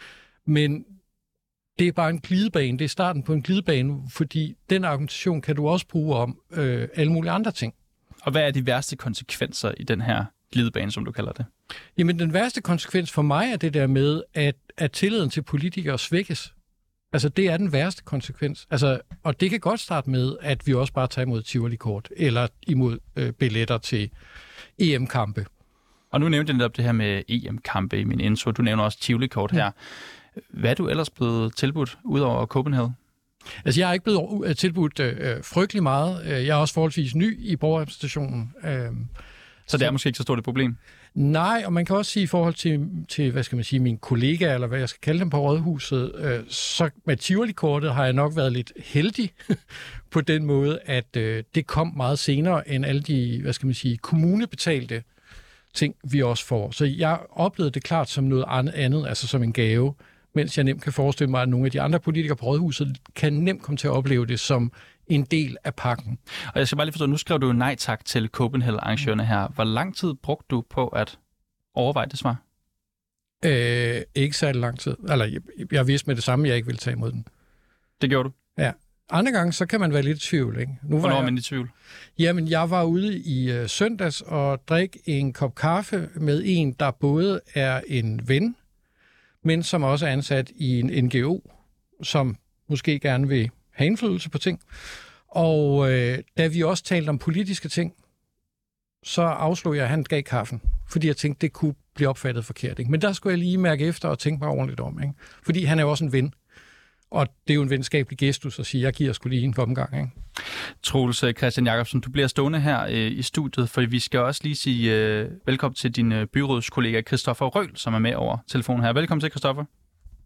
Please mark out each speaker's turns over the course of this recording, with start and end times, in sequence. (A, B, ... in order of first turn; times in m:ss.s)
0:00.4-0:00.9 A
0:01.8-0:07.7 A
0:08.2-0:11.5 B
0:12.0-0:16.5 A
0:17.1-0:24.1 A
0:24.8-0:25.5 A
0:26.1-0:29.7 B
0:30.5-0:33.0 B
0:33.6-0:39.1 A
0:39.7-0:40.8 B
0:41.1-0:55.0 A
0:55.7-1:06.2 A
1:06.5-1:11.2 B
1:11.7-1:12.4 B
1:13.4-1:17.2 A
1:18.0-1:18.3 B
1:18.6-1:21.3 A
1:21.0-1:21.7 B
1:22.2-1:28.6 A
1:29.4-1:31.4 A
1:32.0-1:34.6 A
1:35.3-1:37.9 A
1:39.0-1:46.3 A
1:47.1-1:50.1 A
1:50.8-1:59.7 B